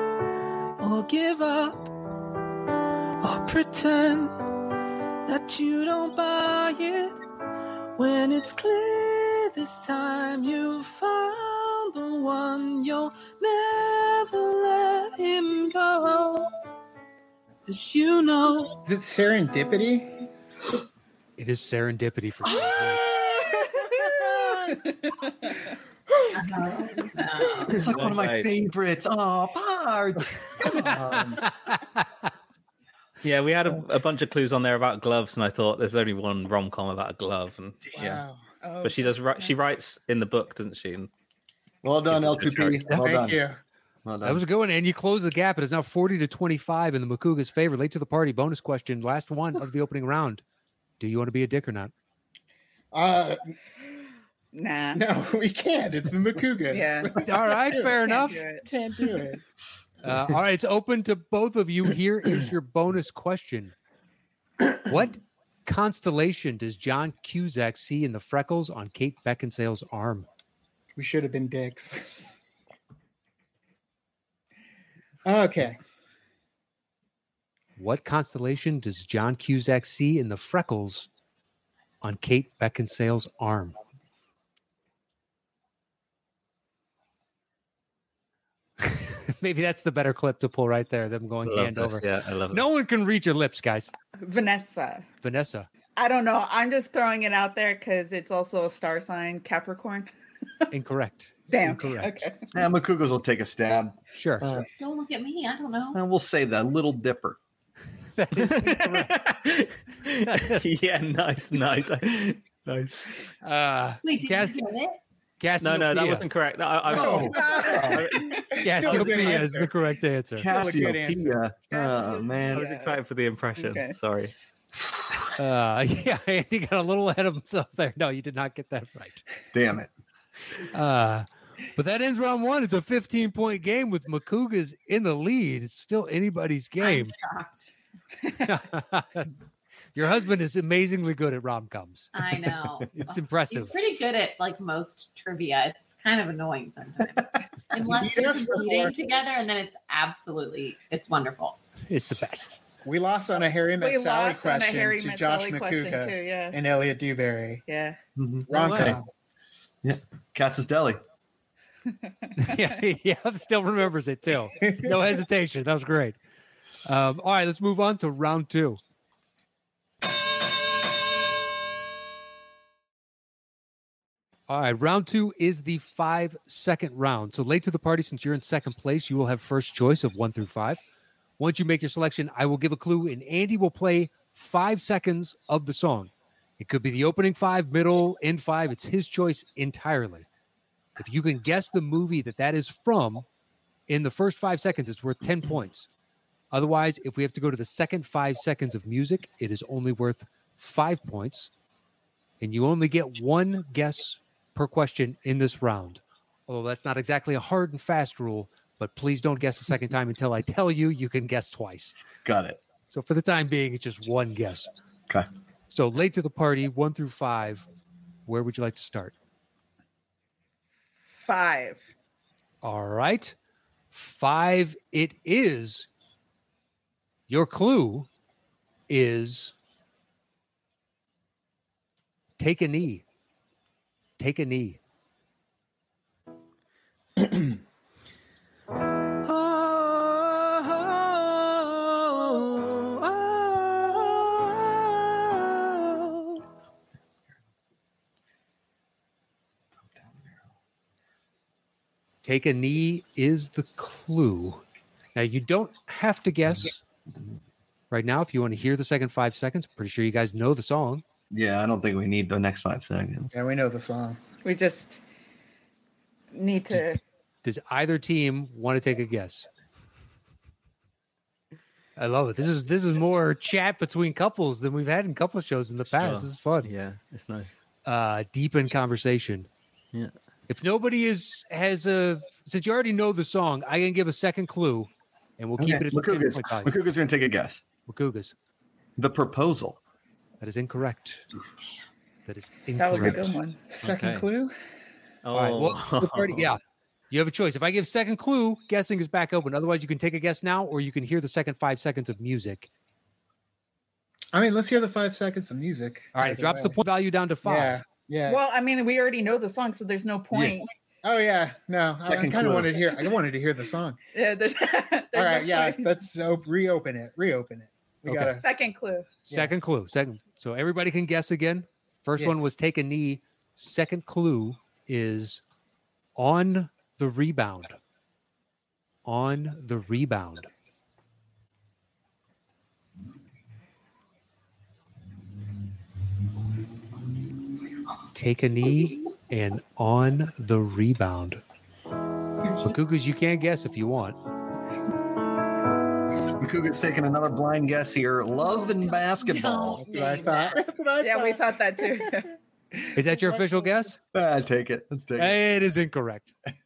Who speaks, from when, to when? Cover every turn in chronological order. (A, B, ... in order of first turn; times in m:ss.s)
0:00.8-0:01.9 A
0:03.2-0:04.4 A
0:05.2-0:07.2 A
0:08.0-0:16.6 A
0:17.7-0:18.8 A
0:18.8-0:20.2 B
0:21.4-0:23.1 C
0:22.7-0:25.7 D
0:26.3-0:28.1 E
0:27.6-0:31.4 F
0:27.8-0:28.5 G
0:30.6-0:31.4 B
0:31.4-0:32.1 C
0:33.2-0:38.2 G
0:37.9-0:38.4 B
0:38.6-0:39.5 D
0:38.8-0:41.1 G
0:41.8-0:43.4 F
0:42.1-0:42.8 G
0:42.9-0:43.6 B
0:44.0-0:44.4 F
0:44.2-0:50.4 C
0:51.0-0:51.9 C
0:52.9-0:53.5 B
0:54.5-0:55.0 D
0:54.9-0:58.0 B
0:56.7-0:57.1 D
0:57.2-0:58.4 C
0:57.8-0:58.7 D
0:58.6-0:59.4 B
1:00.0-1:03.7 C
1:04.8-1:10.3 C
1:11.0-1:12.0 B
1:15.2-1:15.8 B
1:17.8-1:21.1 C
1:22.0-1:23.8 C
1:28.8-1:33.9 C
1:31.4-1:32.6 G
1:34.2-1:35.0 D
1:35.2-1:35.7 C
1:36.0-1:40.1 D
1:40.7-1:42.2 C
1:41.5-1:42.5 D
1:42.5-1:44.7 F
1:44.1-1:44.4 C
1:44.8-1:46.0 E
1:45.9-1:47.4 F
1:48.2-1:49.2 C
1:48.4-1:53.3 G
1:50.3-1:50.7 C
1:53.4-1:54.6 C
1:54.0-1:55.0 E
1:55.4-1:56.2 C
1:55.6-1:58.3 G
1:56.9-1:58.2 F
1:56.9-1:57.9 B
1:57.1-1:58.5 D
1:58.5-1:59.7 B
1:58.6-2:00.5 C
2:00.4-2:02.6 F
2:00.4-2:01.4 B
2:01.7-2:03.0 D
2:02.5-2:04.3 G
2:03.6-2:04.0 D
2:05.4-2:09.2 C
2:09.5-2:09.9 F
2:10.7-2:17.1 C
2:16.8-2:17.7 E
2:18.4-2:19.3 C
2:19.9-2:22.1 C
2:22.1-2:31.6 E
2:22.9-2:23.8 C
2:27.8-2:29.0 B
2:31.9-2:32.6 C
2:32.8-2:37.6 B
2:33.8-2:36.6 D
2:37.7-2:38.0 D
2:38.2-2:39.0 F
2:38.5-2:39.1 B
2:38.5-2:39.0 G
2:39.8-2:41.0 F
2:42.4-2:46.2 C
2:44.6-2:44.9 B
2:46.8-2:48.8 C
2:54.5-3:00.8 C
3:01.4-3:10.3 C
3:11.0-3:13.2 C
3:13.9-3:15.9 C
3:16.5-3:21.5 C
3:22.4-3:31.9 C
3:32.2-3:32.6 F
3:32.9-3:34.7 C
3:35.7-3:37.6 C
3:38.2-3:39.1 C
3:41.1-3:41.8 D
3:42.6-3:43.4 C
3:43.9-3:45.9 C
3:47.3-3:48.1 C
3:48.9-3:49.5 C
3:52.4-3:53.0 C
3:54.2-3:54.8 C
3:59.2-4:06.4 A
4:09.9-4:10.4 F
4:12.2-4:14.6 C
4:15.1-4:16.8 C
4:17.1-4:17.3 F
4:17.9-4:21.0 C
4:21.3-4:23.3 F
4:23.3-4:24.2 B
4:24.4-4:25.0 D
4:26.3-4:27.0 D
4:27.4-4:29.5 C
4:32.0-4:36.7 C
4:35.9-4:37.5 G
4:37.8-4:39.5 C
4:40.5-4:46.7 C
4:45.6-4:47.6 F
4:47.9-4:48.3 C
4:49.0-4:49.8 F
4:50.4-4:51.2 C
4:52.2-4:53.4 C
4:52.7-4:53.6 D
4:52.9-4:53.2 F
4:53.7-4:54.5 B
4:53.8-4:54.2 G
4:55.2-4:56.5 G
4:55.3-4:56.6 C
4:57.1-5:02.7 C
5:04.3-5:06.8 B
5:06.1-5:07.8 C
5:07.4-5:08.4 B
5:08.2-5:10.7 D
5:10.3-5:10.6 F
5:11.0-5:14.0 B
5:12.0-5:12.8 F
5:14.1-5:16.0 D
5:15.1-5:18.4 B
5:18.1-5:19.1 D
5:19.2-5:25.4 C
5:22.2-5:22.5 B
5:26.2-5:27.8 C
5:29.0-5:30.5 C
5:38.1-5:41.4 C
5:42.6-5:44.2 C
5:46.4-5:49.8 F
5:48.4-5:50.6 E
5:49.8-5:52.1 B
5:49.9-5:50.3 D
5:51.0-5:52.3 D
5:52.8-5:53.8 B
5:53.0-5:54.0 C
5:54.1-5:55.4 F
5:55.2-5:56.3 C